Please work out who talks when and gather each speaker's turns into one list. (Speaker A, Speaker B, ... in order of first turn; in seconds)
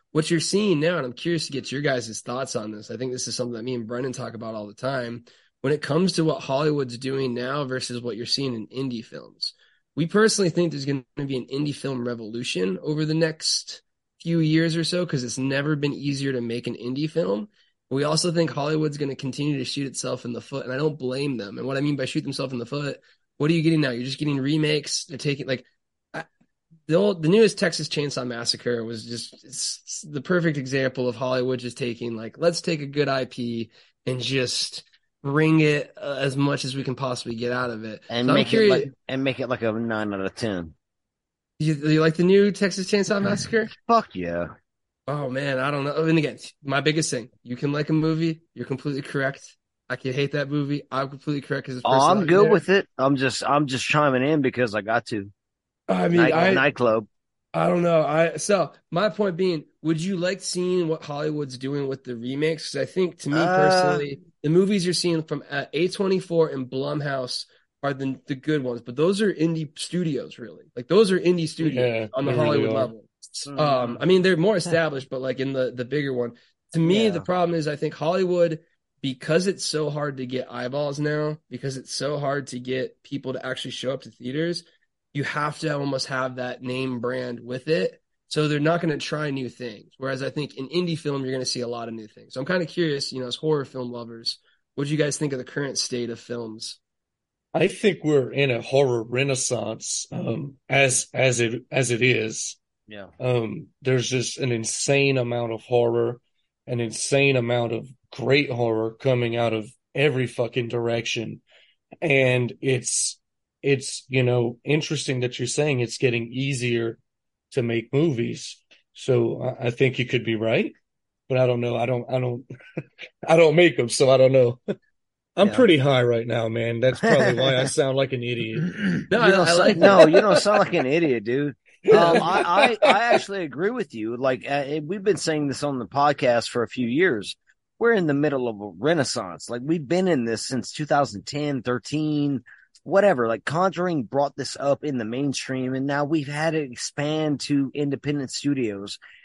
Speaker A: 0.1-26.3, 26.9-38.9, 41.6-43.7, 45.1-52.6, 55.9-56.7, 57.5-96.8, 129.1-130.1, 131.9-132.2
Speaker B: 38.1-40.8, 43.8-44.5, 51.8-55.3, 56.1-57.1, 63.3-64.0, 73.5-74.0, 76.8-77.3, 125.4-125.7, 127.0-127.6, 129.1-149.0
Speaker C: 71.6-72.9, 97.5-102.6, 103.2-111.4, 112.0-117.0, 117.5-120.8, 121.3-122.5, 123.3-124.6, 125.4-128.7, 131.8-132.8